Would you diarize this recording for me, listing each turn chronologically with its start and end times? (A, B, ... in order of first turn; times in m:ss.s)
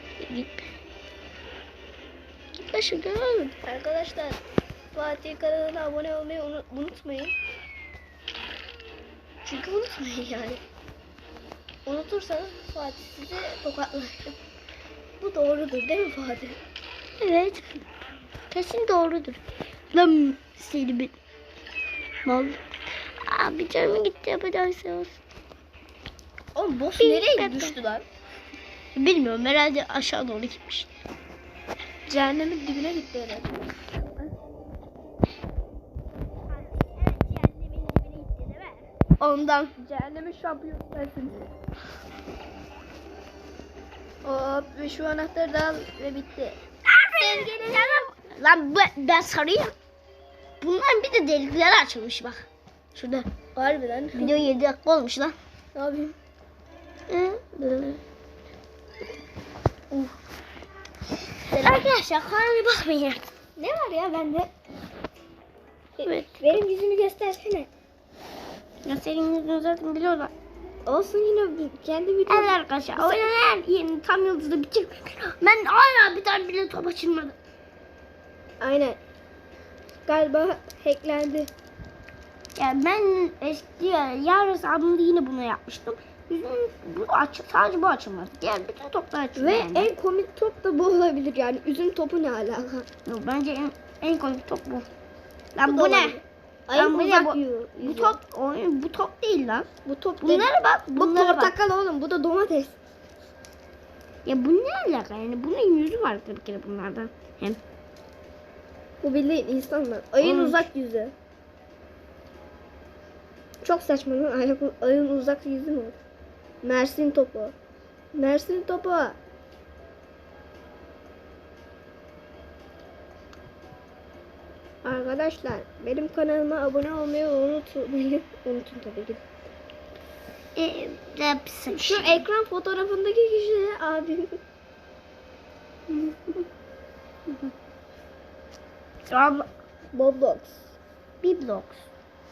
0:00.2-0:00.7 A
0:02.6-0:03.5 A
0:03.6-0:04.4 B
0:04.9-0:07.3 B
0:09.4-0:10.6 B
0:11.8-0:14.4 B
0:15.2-0:16.6 B
0:17.2-0:17.7 A
0:18.5-0:19.4 A
0:19.9-0:21.2 A
0:22.2-0:22.6 A
0:23.2-0:25.2 A
0:26.5-0:28.0 B
0:27.0-0:27.8 A
0:28.9-0:30.9 A
0:32.0-0:34.3 B
0:37.0-0:38.8 B
0:37.3-0:37.6 A
0:39.2-0:39.7 A
0:39.8-0:41.5 B
0:44.2-0:46.6 B
0:46.8-0:49.7 A
0:47.2-0:47.9 B
0:50.6-0:53.3 A
0:53.5-0:54.4 B
0:54.1-0:55.4 A
0:55.7-0:56.2 B
0:57.1-0:58.0 A
1:01.5-1:03.3 A
1:03.6-1:04.5 B
1:06.0-1:07.7 B
1:06.0-1:06.6 A
1:08.8-1:10.3 A
1:10.8-1:13.3 B
1:12.3-1:17.4 A
1:18.6-1:19.0 B
1:20.0-1:21.5 B
1:22.6-1:29.9 A
1:29.4-1:32.9 B
1:33.0-1:34.9 A
1:35.5-1:36.2 A
1:35.6-1:38.2 B
1:36.7-1:39.7 A
1:39.8-1:42.8 B
1:40.2-1:41.5 A
1:44.2-1:47.6 A
1:49.0-1:51.1 B
1:50.2-1:50.7 A
1:53.6-1:56.0 B
1:56.6-1:57.5 B
1:58.1-1:59.2 B
2:04.8-2:09.2 B
2:10.6-2:12.2 A
2:11.7-2:14.4 B
2:19.1-2:19.4 A
2:19.9-2:20.6 B
2:21.2-2:21.9 A